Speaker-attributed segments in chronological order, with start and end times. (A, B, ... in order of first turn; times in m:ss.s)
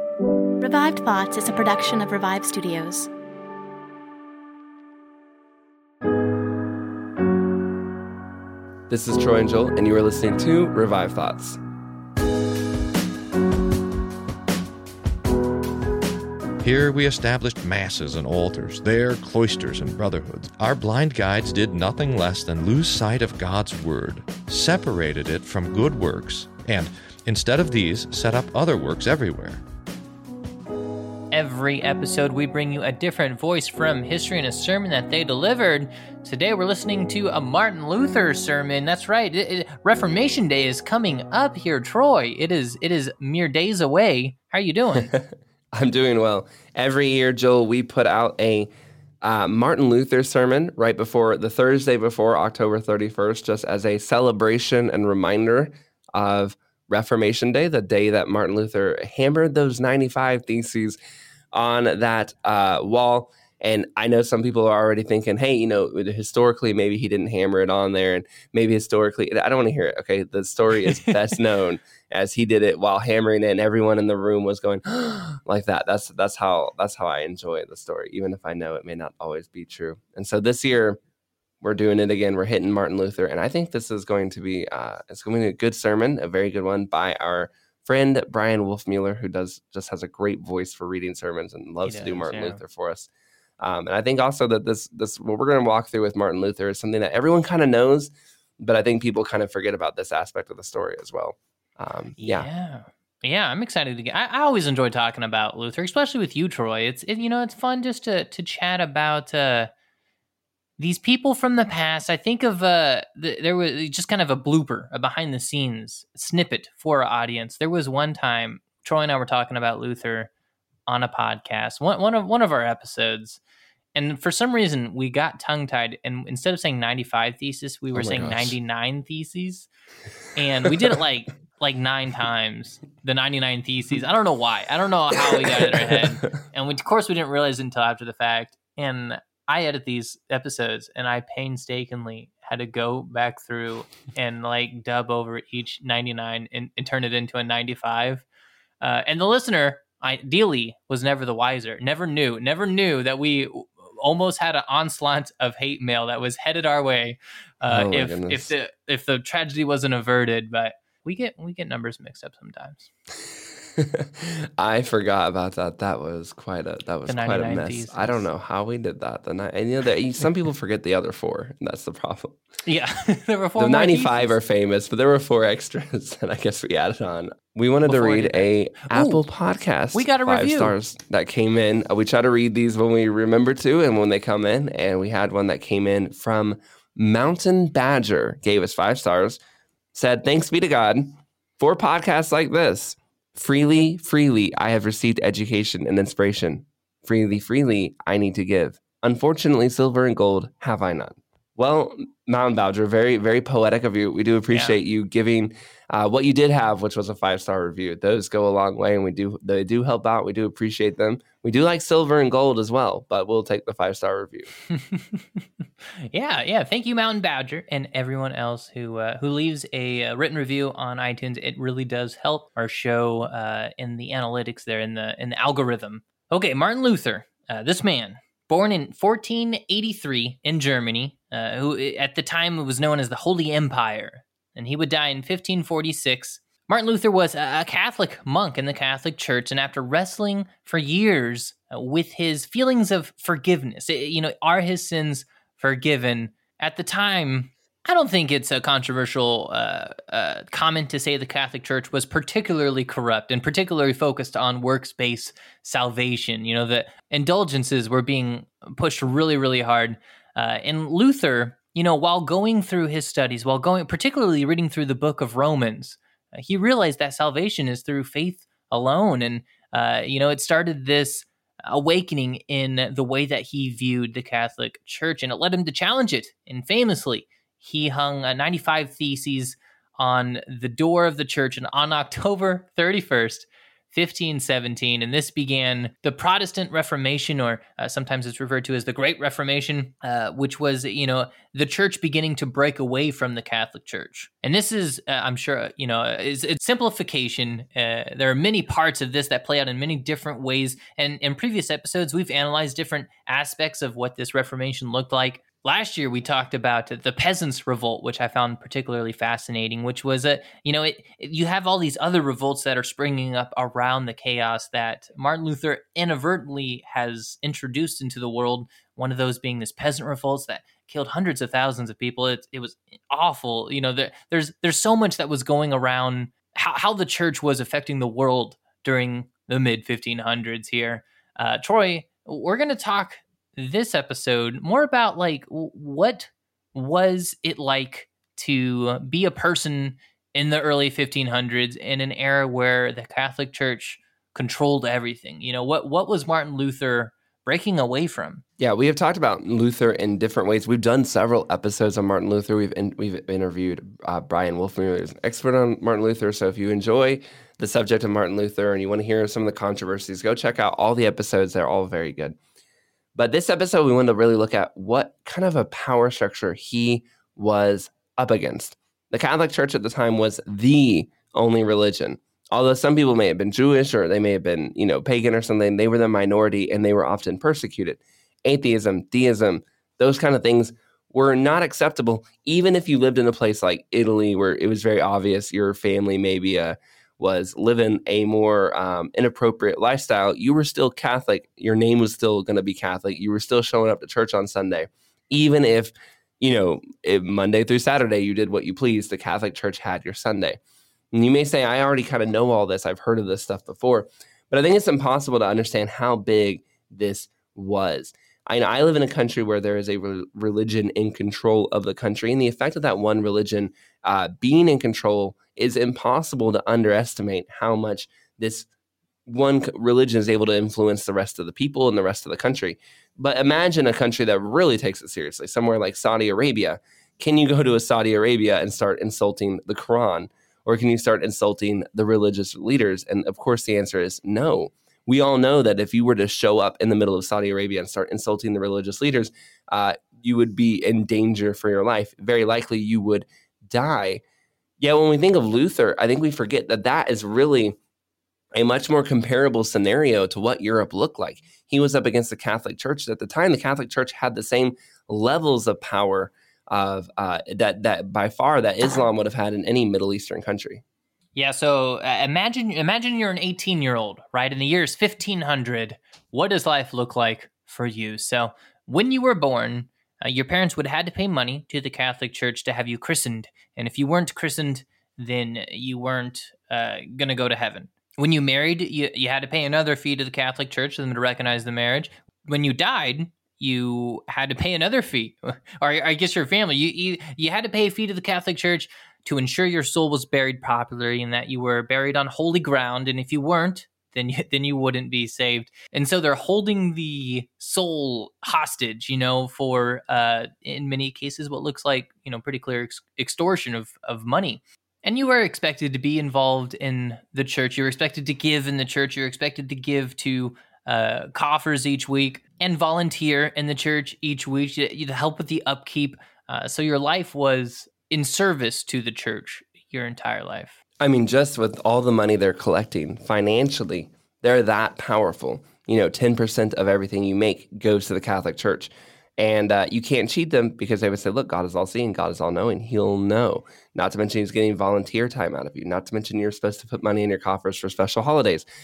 0:00.6-0:03.1 A
0:08.9-0:11.6 B
0:16.6-0:29.6 C
0:31.3-0:45.1 D
0:45.0-0:48.7 B
0:49.2-1:01.0 B
1:01.5-1:21.0 B
1:10.8-1:11.1 D
1:21.6-1:33.1 B
1:31.8-1:32.6 D
1:33.6-1:42.5 B
1:42.2-1:49.7 D
1:50.8-2:00.3 D
2:00.9-2:03.4 D
2:03.9-2:09.7 D
2:07.9-2:08.6 B
2:10.3-2:28.2 D
2:15.6-2:16.3 B
2:28.8-2:42.9 D
2:37.7-2:38.5 B
2:43.8-2:52.4 B
2:47.1-2:48.2 D
2:52.6-2:54.4 D
2:53.6-3:09.4 B
2:57.8-2:59.2 D
2:59.9-3:00.7 D
3:09.9-3:34.5 B
3:24.5-3:24.8 D
3:34.7-3:35.4 D
3:36.0-5:48.4 D
5:48.6-6:02.4 B
6:03.1-6:40.6 B
6:41.1-6:58.7 B
6:59.3-7:24.2 B
7:24.8-7:27.8 B
7:28.5-7:40.8 B
7:41.3-8:40.8 D
8:41.0-8:58.6 B